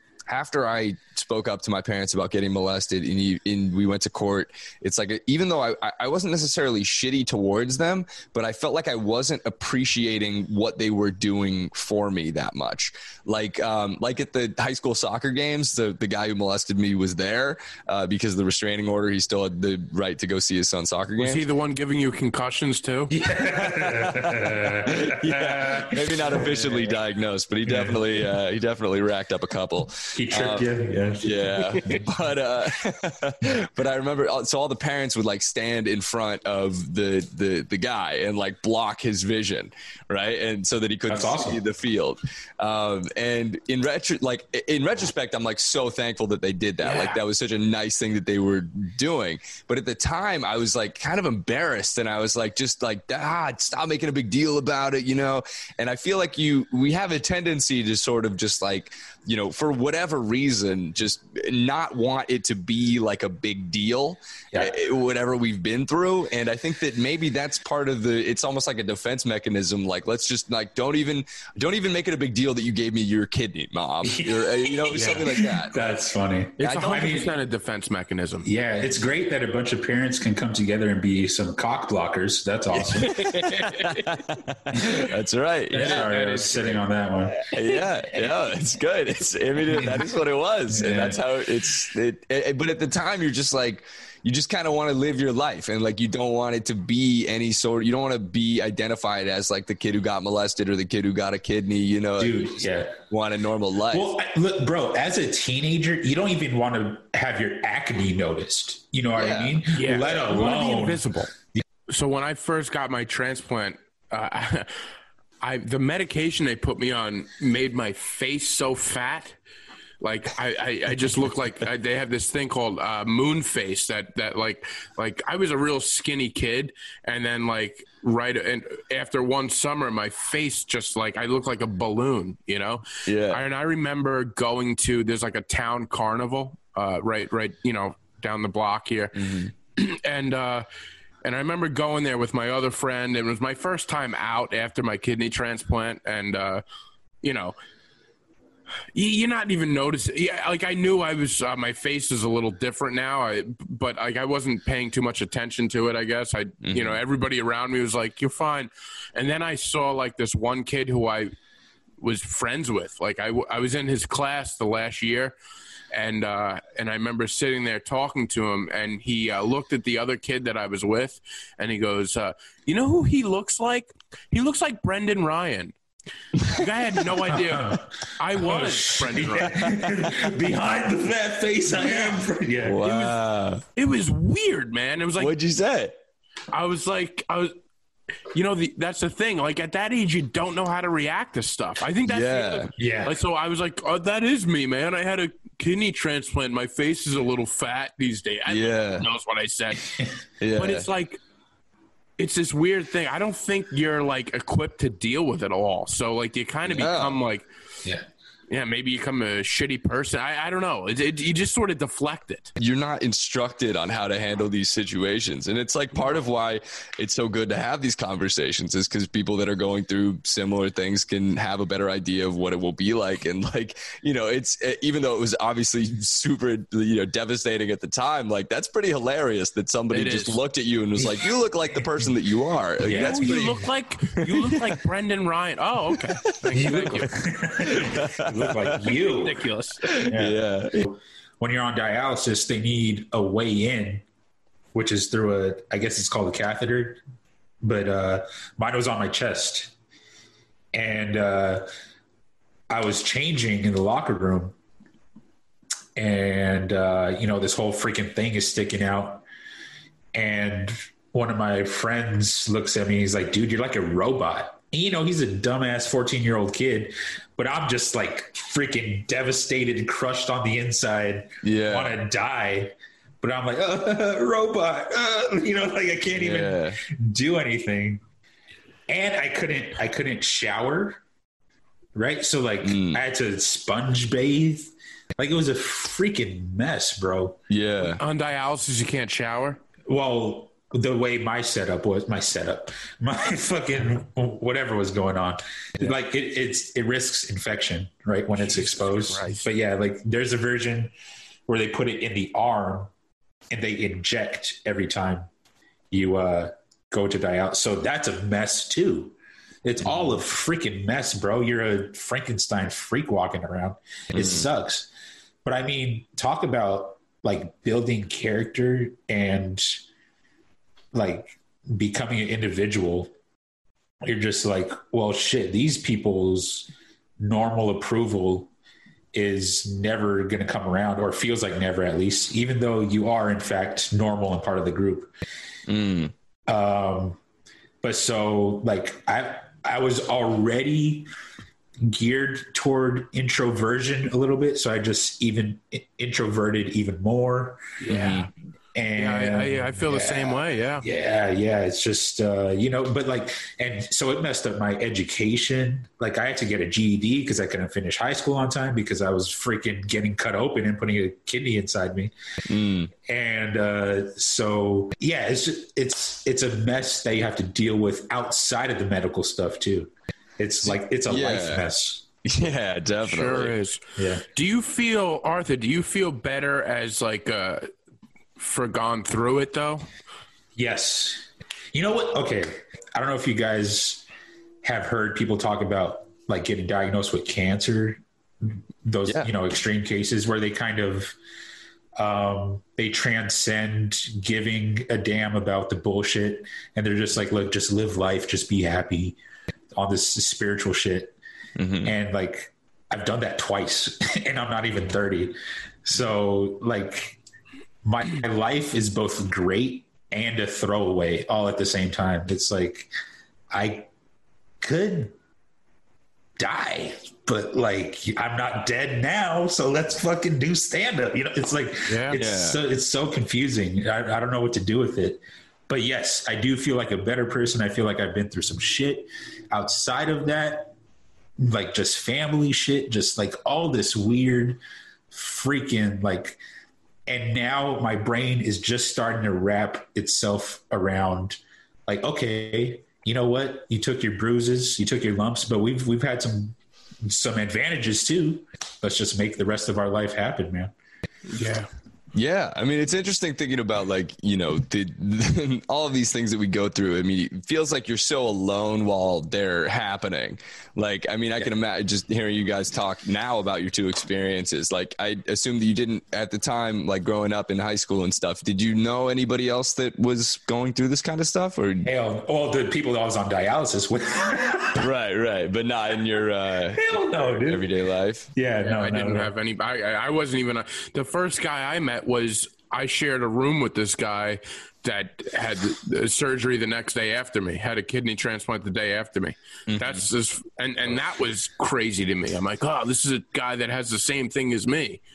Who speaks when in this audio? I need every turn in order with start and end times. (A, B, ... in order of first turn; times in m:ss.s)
0:00.3-0:21.4 A
0:21.2-0:23.1 B
0:23.1-0:27.0 C
0:23.5-0:30.7 A
0:27.6-0:28.2 C
0:30.1-0:32.1 C
0:31.2-1:15.8 A
0:31.5-0:31.9 B
0:41.1-0:41.6 C
0:46.8-0:47.2 B
1:14.0-1:17.3 C
1:14.9-1:15.2 B
1:16.6-1:18.5 B
1:16.6-1:17.2 A
1:18.4-1:23.2 C
1:22.8-1:24.2 B
1:22.9-1:26.1 A
1:24.7-1:25.0 C
1:25.7-1:27.4 C
1:25.7-1:26.8 B
1:27.4-1:44.1 A
1:28.1-1:28.5 C
1:29.7-1:30.1 C
1:30.7-1:31.2 C
1:42.2-1:43.0 C
1:43.9-1:51.6 C
1:49.2-1:49.6 A
1:49.7-1:51.3 B
1:51.9-1:54.8 B
1:55.4-1:59.4 B
2:00.0-2:20.6 B
2:13.1-2:13.4 A
2:19.2-2:19.5 A
2:21.2-2:26.6 B
2:27.2-2:27.5 B
2:28.9-2:41.3 B
2:36.6-2:37.0 A
2:42.0-2:45.4 B
2:45.9-2:55.8 B
2:56.5-2:59.7 B
2:57.3-3:02.8 C
2:59.5-3:00.1 A
3:02.6-3:03.6 A
3:02.8-3:03.2 B
3:03.8-3:05.3 B
3:05.2-3:05.9 A
3:06.5-3:07.5 B
3:08.3-3:19.9 B
3:12.1-3:12.7 A
3:12.8-3:13.2 C
3:18.5-3:19.1 A
3:20.4-3:20.9 A
3:20.5-3:21.2 B
3:22.2-3:27.5 B
3:26.7-3:27.2 A
3:28.5-3:32.5 B
3:32.6-3:53.6 A
3:49.9-3:50.4 B
3:52.8-3:53.7 C
3:52.9-3:57.2 B
3:54.2-3:54.8 A
3:56.2-3:56.8 A
3:56.5-3:59.4 C
3:57.7-3:59.0 A
3:59.1-3:59.9 B
3:59.8-4:00.8 A
4:00.0-4:04.0 C
4:04.7-4:07.0 C
4:07.6-4:09.7 C
4:10.7-4:11.6 C
4:12.7-4:14.6 C
4:16.0-4:19.2 C
4:20.1-4:38.0 C
4:31.4-4:32.0 A
4:36.1-4:36.8 A
4:38.9-4:41.0 C
4:41.9-4:47.4 C
4:42.6-4:43.0 A
4:47.5-4:48.0 A
4:48.0-4:49.6 B
4:49.9-5:00.9 C
4:58.5-4:59.5 B
5:01.5-5:02.9 C
5:03.5-5:05.3 C
5:05.9-5:14.9 C
5:09.8-5:10.2 A
5:14.1-5:14.5 A
5:15.4-5:19.8 C
5:20.9-5:23.1 C
5:24.0-5:28.5 C
5:29.1-5:35.1 C
5:35.7-5:36.1 A
5:36.5-5:37.2 C
5:37.8-5:41.1 C
5:41.8-5:47.6 C
5:47.8-5:48.3 B
5:47.9-5:48.3 A
5:48.8-6:02.1 C
5:49.0-5:50.9 B
6:02.5-6:02.9 A
6:03.0-6:12.0 C
6:10.7-6:11.7 A
6:12.2-6:13.5 A
6:13.0-6:17.7 B
6:14.0-6:14.2 C
6:18.4-6:19.8 B
6:20.6-6:24.0 C
6:24.6-6:31.2 C
6:32.0-6:39.2 C
6:39.7-6:41.1 C
6:41.6-6:41.9 A
6:41.8-6:47.2 C
6:47.8-6:52.9 C
6:53.5-6:53.9 C
6:54.6-6:55.1 C
6:56.4-7:10.8 C
7:01.9-7:02.2 B
7:02.1-7:02.6 A
7:11.4-7:14.6 C
7:15.1-7:16.4 C
7:17.1-7:30.7 C
7:31.3-7:31.7 B
7:32.1-7:51.9 A
7:51.8-7:54.9 C
7:54.8-7:58.3 A
7:56.8-7:57.7 C
7:58.4-7:59.3 C
7:58.6-8:15.0 B
8:09.7-8:10.1 A